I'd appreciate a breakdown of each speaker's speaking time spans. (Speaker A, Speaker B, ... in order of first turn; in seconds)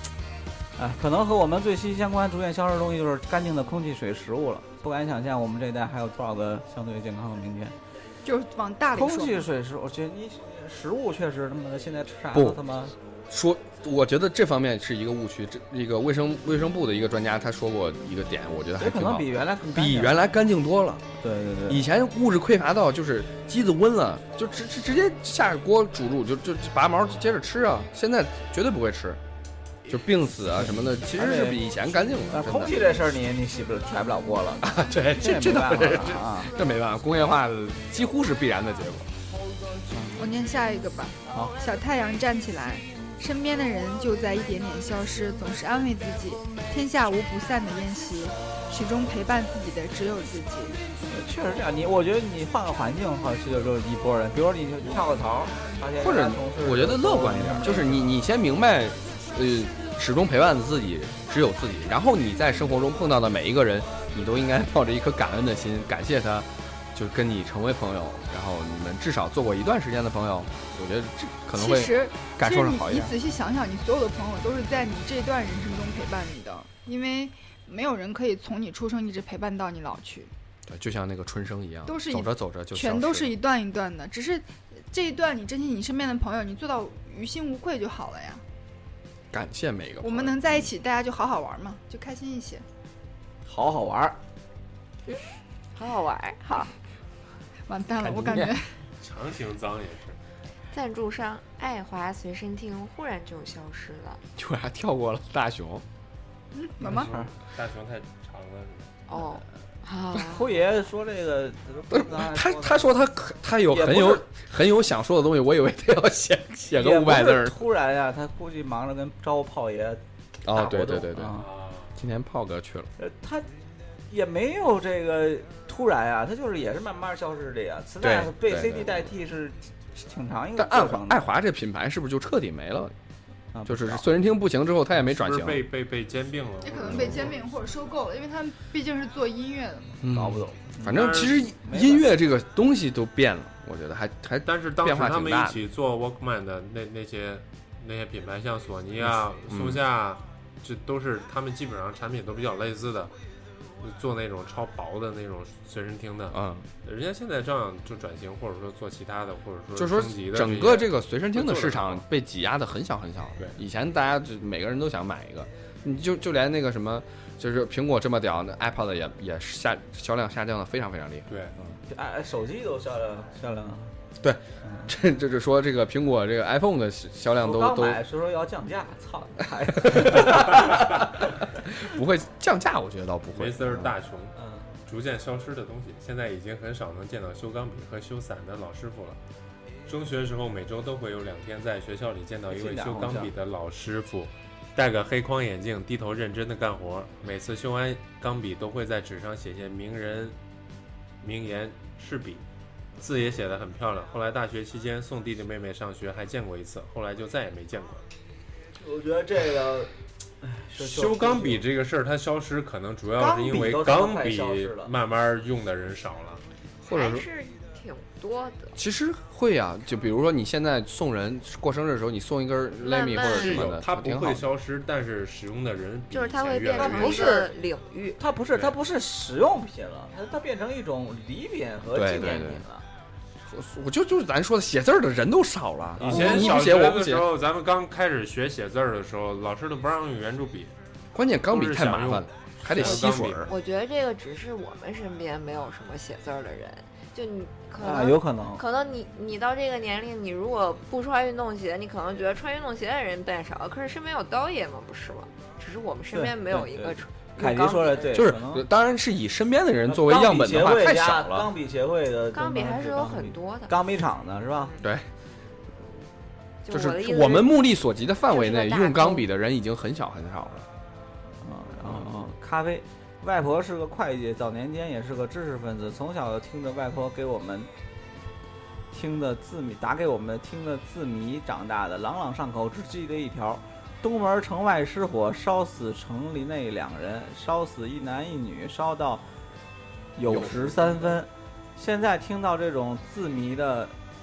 Speaker A: 0.8-7.8, 8.9-12.9, 18.8-20.2, 21.2-21.9, 31.1-31.6, 32.3-36.5, 39.9-40.3, 51.1-58.1, 93.5-94.2, 106.8-107.3, 110.3-112.9, 113.7-114.2, 116.7-121.5, 123.0-123.5, 124.1-131.2, 133.5-134.1, 140.1-142.2, 171.9-173.9, 177.4-180.8, 184.3-184.7, 192.5-193.3, 208.8-211.7, 213.2-214.9, 226.7-227.5, 228.2-232.8, 236.0-236.5, 247.8-248.6, 256.1-258.6, 259.9-264.7, 271.4-277.7, 278.9-289.3, 290.2-293.9
Speaker B: 8.2-9.5, 40.2-50.8, 71.5-80.3, 81.9-88.4, 90.0-92.7, 97.7-98.8, 106.5-107.1, 136.6-140.0
Speaker C: 12.3-12.6, 13.3-21.0, 21.7-29.2, 29.9-33.0, 34.6-39.1, 56.0-73.1, 80.7-83.3, 89.3-90.7, 98.0-98.6, 104.4-105.8, 111.9-117.6, 120.4-121.4, 122.0-122.9, 128.0-129.1, 130.6-132.9, 133.7-135.6, 140.0-145.6, 149.0-149.8, 156.3-156.7, 159.8-171.7, 174.2-178.0, 179.8-180.9, 181.6-183.9, 216.9-217.3, 218.8-224.5, 231.9-232.7, 233.4-237.3, 241.1-243.5, 258.1-261.5, 264.8-265.1, 266.7-270.7, 271.8-272.1, 290.3-290.9
Speaker D: 95.8-96.7, 100.7-104.2, 109.1-110.5, 216.9-218.7, 222.8-223.6, 226.1-228.2, 243.5-258.2, 262.3-263.7, 266.6-267.6, 268.3-269.3
Speaker E: 99.0-100.2, 106.8-109.0, 121.4-121.9, 135.1-137.4, 140.9-141.4, 144.4-153.1, 153.8-162.0, 183.3-184.3, 184.9-189.2, 189.9-200.4, 201.2-202.4, 203.0-208.1, 210.8-216.4, 223.2-227.3, 236.0-240.7, 241.5-243.5